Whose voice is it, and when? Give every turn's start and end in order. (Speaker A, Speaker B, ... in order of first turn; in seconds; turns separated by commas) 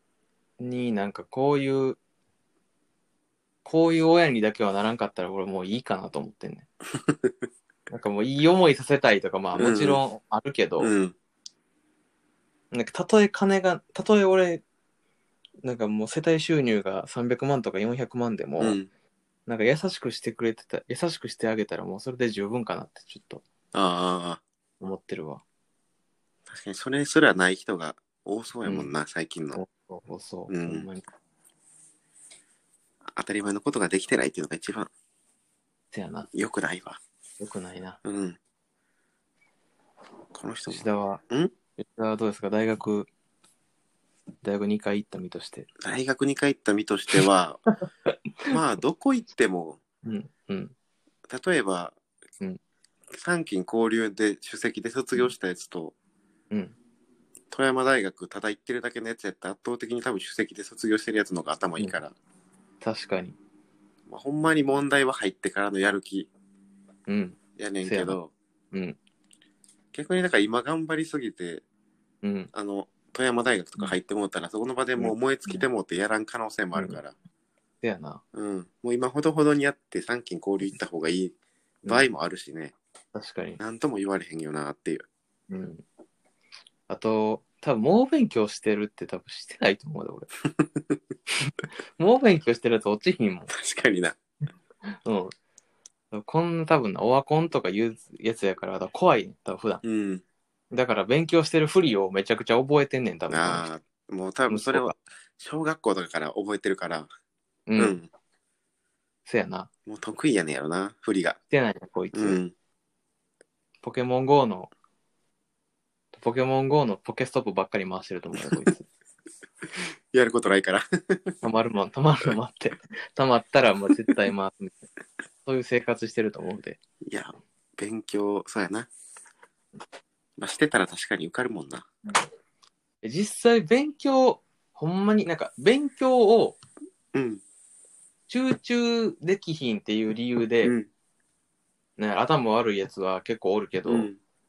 Speaker A: 0.6-2.0, Speaker A: 3.6-6.7, Speaker B: 7.0-7.3, Speaker A: 7.9-10.9, Speaker B: 9.6-10.0, Speaker B: 10.8-11.1, Speaker A: 12.7-14.6, Speaker A: 15.6-18.8, Speaker B: 18.6-18.9, Speaker A: 19.5-23.4, Speaker B: 23.7-24.4, Speaker A: 24.8-25.4, Speaker B: 26.5-29.6, Speaker A: 28.6-28.9, Speaker A: 29.5-31.0, Speaker B: 30.5-30.9, Speaker B: 33.1-34.9, Speaker A: 35.9-36.3, Speaker B: 36.3-37.0, Speaker A: 37.4-38.0, Speaker B: 38.0-38.4, Speaker B: 40.3-41.5, Speaker A: 40.7-41.2, Speaker A: 41.8-43.1, Speaker A: 44.4-45.7, Speaker B: 45.8-47.6, Speaker B: 48.5-49.8, Speaker A: 50.0-50.7, Speaker B: 51.3-52.0, Speaker B: 53.1-55.9, Speaker B: 57.5-62.1, Speaker A: 62.8-63.4, Speaker B: 64.1-66.3, Speaker A: 67.1-68.2, Speaker B: 67.6-68.3, Speaker A: 68.7-69.0, Speaker B: 69.9-71.6, Speaker A: 72.2-72.5, Speaker B: 72.5-77.1, Speaker A: 75.0-75.7, Speaker A: 76.7-77.0, Speaker A: 77.8-78.2, Speaker B: 78.3-82.7, Speaker A: 83.1-83.6, Speaker B: 83.6-85.0, Speaker A: 85.5-85.8, Speaker A: 86.9-90.3, Speaker B: 90.6-91.0, Speaker A: 91.4-93.5, Speaker B: 93.5-94.2, Speaker A: 95.0-95.3, Speaker A: 96.1-99.8, Speaker B: 99.8-100.2, Speaker A: 100.7-103.7, Speaker B: 103.3-107.1, Speaker A: 104.5-104.9, Speaker A: 107.7-108.0, Speaker B: 107.8-108.1, Speaker A: 109.2-109.7, Speaker B: 109.9-111.4, Speaker A: 111.5-112.4, Speaker B: 112.1-112.5, Speaker A: 113.8-114.7, Speaker A: 116.2-118.9, Speaker B: 118.4-118.6, Speaker B: 119.8-121.3, Speaker A: 121.4-124.9, Speaker A: 125.4-126.8, Speaker B: 127.1-128.9, Speaker B: 130.4-131.9, Speaker A: 133.0-136.6, Speaker B: 137.1-137.4, Speaker A: 138.3-140.7, Speaker A: 142.0-144.1, Speaker B: 143.8-144.2